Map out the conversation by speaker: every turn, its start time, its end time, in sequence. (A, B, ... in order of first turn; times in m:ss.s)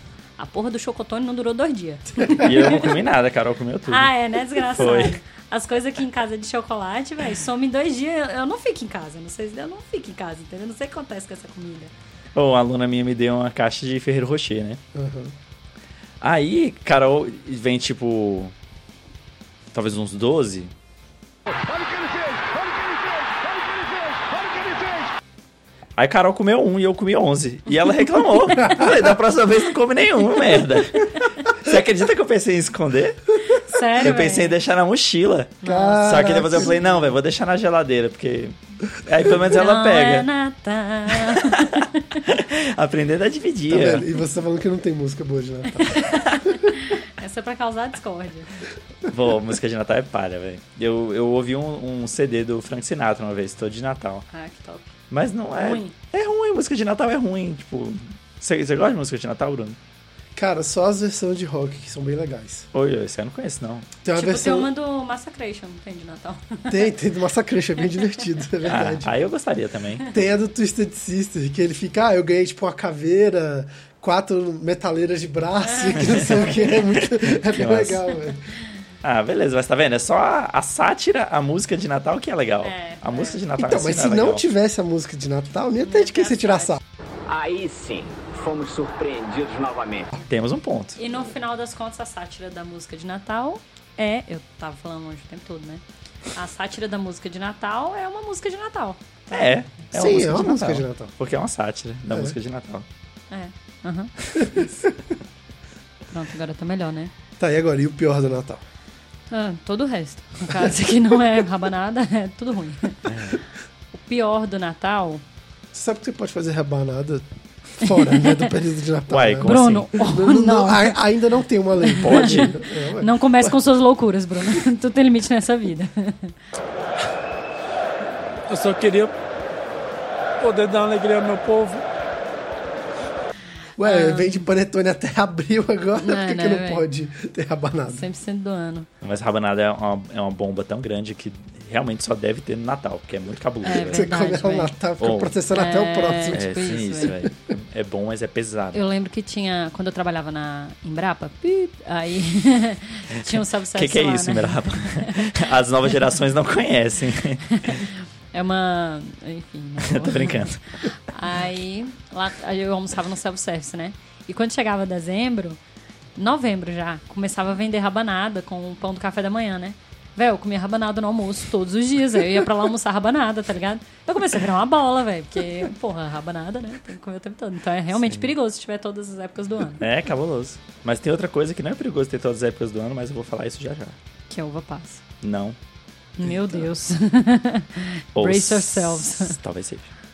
0:00.4-0:02.9 A
0:02.3-0:05.2 B
0:03.9-0:11.9 A
0:12.3-0:14.8 B
0:14.9-0:15.3 C
0:16.2-0:18.5 B
0:19.7-0:20.7 B
0:21.5-0:25.0 D
0:26.0-0:33.3 B
0:28.5-0:28.8 A
0:28.6-0:28.9 C
0:33.5-0:34.5 A
0:34.0-0:40.3 B
0:35.6-0:37.0 A
0:35.6-0:36.8 C
0:39.5-0:42.2 A
0:41.1-0:44.1 B
0:43.7-0:46.3 C
0:45.7-0:48.5 A
0:49.0-0:54.2 B
0:54.3-0:54.9 A
0:55.1-0:59.8 B
0:55.6-0:55.9 A
1:00.3-1:02.7 C
1:02.7-1:03.9 B
1:04.0-1:04.7 C
1:04.1-1:06.9 A
1:06.7-1:09.1 C
1:08.0-1:08.2 A
1:08.6-1:10.2 B
1:10.1-1:18.5 C
1:15.6-1:16.7 A
1:16.0-1:18.0 B
1:19.0-1:24.4 B
1:22.6-1:23.4 A
1:23.6-1:26.8 C
1:25.8-1:26.8 A
1:27.3-1:30.1 E
1:30.2-1:31.0 B
1:31.0-1:39.6 A
1:39.3-1:42.8 B
1:39.9-1:41.1 C
1:42.1-1:42.4 C
1:43.3-1:44.6 A
1:44.4-1:44.7 C
1:46.1-1:47.1 A
1:47.4-1:48.6 C
1:49.3-1:53.1 A
1:50.5-1:50.8 C
1:53.0-1:53.4 B
1:53.9-1:55.2 A
1:55.7-2:03.6 C
1:57.8-1:58.5 A
1:59.1-1:59.9 B
1:59.4-2:01.0 A
2:01.8-2:06.3 A
2:01.9-2:02.5 B
2:08.5-2:09.1 F
2:10.4-2:11.8 F
2:13.8-2:18.0 C
2:13.8-2:14.4 A
2:16.0-2:16.9 A
2:17.9-2:18.9 A
2:19.0-2:24.1 B
2:23.6-2:24.8 A
2:23.8-2:26.5 C
2:25.0-2:25.4 B
2:25.5-2:27.1 A
2:26.3-2:28.8 B
2:28.7-2:35.4 A
2:33.1-2:37.8 B
2:37.5-2:45.6 A
2:39.8-2:40.8 B
2:46.2-2:59.8 A
2:58.0-2:58.3 B
2:59.8-3:04.0 B
3:04.3-3:05.0 A
3:05.2-3:05.6 B
3:06.2-3:09.4 A
3:06.2-3:06.7 C
3:08.2-3:09.9 B